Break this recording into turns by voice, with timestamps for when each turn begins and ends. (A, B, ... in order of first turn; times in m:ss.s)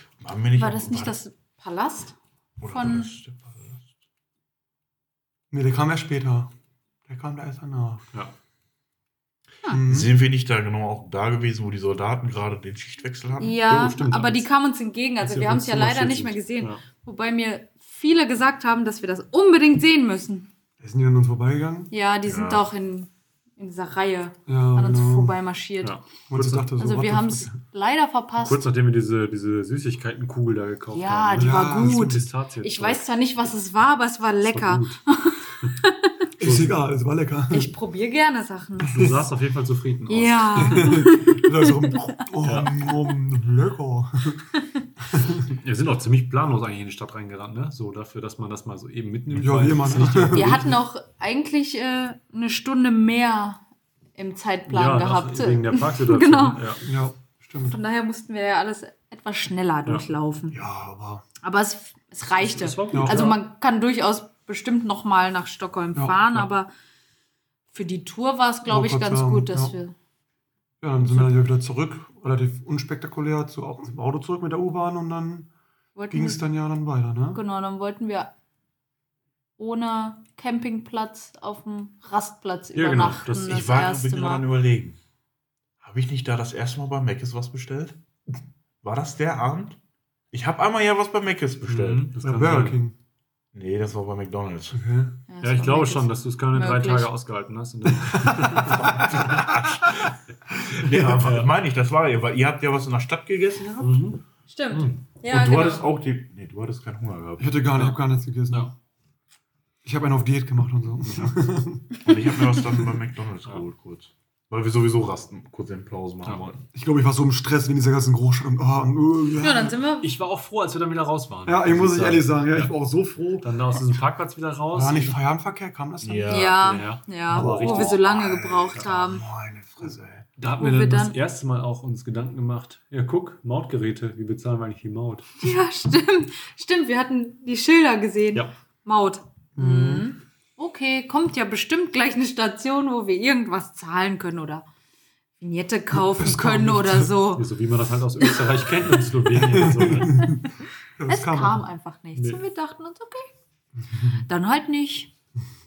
0:00.2-0:01.2 A
0:00.6-0:03.1 B
0:02.6-0:03.8 A
0:05.5-0:06.5 C
0:07.1-0:08.0 C
0:09.7-0:10.2 C
0:09.8-0:13.6 A
0:13.4-0:20.5 B
0:13.6-0:14.5 D
0:15.2-0:16.8 D
0:20.8-0:21.9 C
0:21.9-0:26.0 B
0:22.2-0:22.6 A
0:24.5-0:25.4 C
0:25.8-0:26.7 D
0:26.3-0:27.6 C
0:26.8-0:28.7 B
0:28.4-0:33.0 D
0:30.9-0:36.1 B
0:31.4-0:32.3 C
0:34.4-0:35.0 D
0:36.4-0:37.7 C
0:36.4-0:36.8 D
0:37.5-0:39.1 B
0:38.9-0:41.1 D
0:40.1-0:42.0 B
0:40.6-0:44.5 C
0:42.4-0:42.7 D
0:45.1-0:45.5 C
0:45.4-0:50.7 D
0:49.3-0:50.8 C
0:50.3-0:53.6 B
0:54.2-0:56.6 B
0:54.7-0:56.9 D
0:56.8-0:57.8 C
0:57.6-1:00.6 B
1:00.5-1:01.2 C
1:01.4-1:06.7 B
1:02.3-1:03.4 D
1:02.9-1:03.3 C
1:07.7-1:10.0 B
1:08.6-1:09.7 C
1:10.8-1:15.5 C
1:11.1-1:11.3 B
1:16.0-1:16.4 B
1:16.1-1:17.4 C
1:17.3-1:18.3 B
1:19.6-1:24.5 B
1:22.7-1:23.7 D
1:23.4-1:25.0 A
1:25.8-1:28.0 A
1:28.8-1:29.8 A
1:30.3-1:32.1 A
1:31.7-1:32.8 D
1:32.2-1:33.0 C
1:33.5-1:34.8 A
1:34.7-1:35.2 C
1:35.3-1:37.1 B
1:35.4-1:39.4 D
1:38.0-1:39.9 C
1:38.9-1:44.1 A
1:40.8-1:41.2 C
1:41.2-1:41.5 D
1:43.8-1:45.0 D
1:44.5-1:45.9 B
1:45.3-1:47.5 A
1:47.4-1:48.7 C
1:47.7-1:48.7 D
1:49.8-1:51.9 C
1:51.0-1:51.4 D
1:52.0-1:56.6 A
1:56.2-1:56.5 D
1:56.7-1:59.8 C
1:59.4-2:00.1 B
2:00.0-2:02.7 D
2:01.5-2:04.0 C
2:03.4-2:05.2 D
2:04.7-2:06.5 C
2:06.0-2:06.8 A
2:06.3-2:09.2 B
2:06.6-2:08.0 D
2:07.3-2:10.3 C
2:10.4-2:15.3 D
2:10.6-2:11.2 B
2:15.4-2:24.6 B
2:19.6-2:20.1 C
2:25.4-2:27.5 B
2:25.9-2:27.1 C
2:27.3-2:30.3 D
2:29.4-2:31.7 C
2:31.1-2:33.3 B
2:32.2-2:32.4 D
2:34.0-2:35.1 B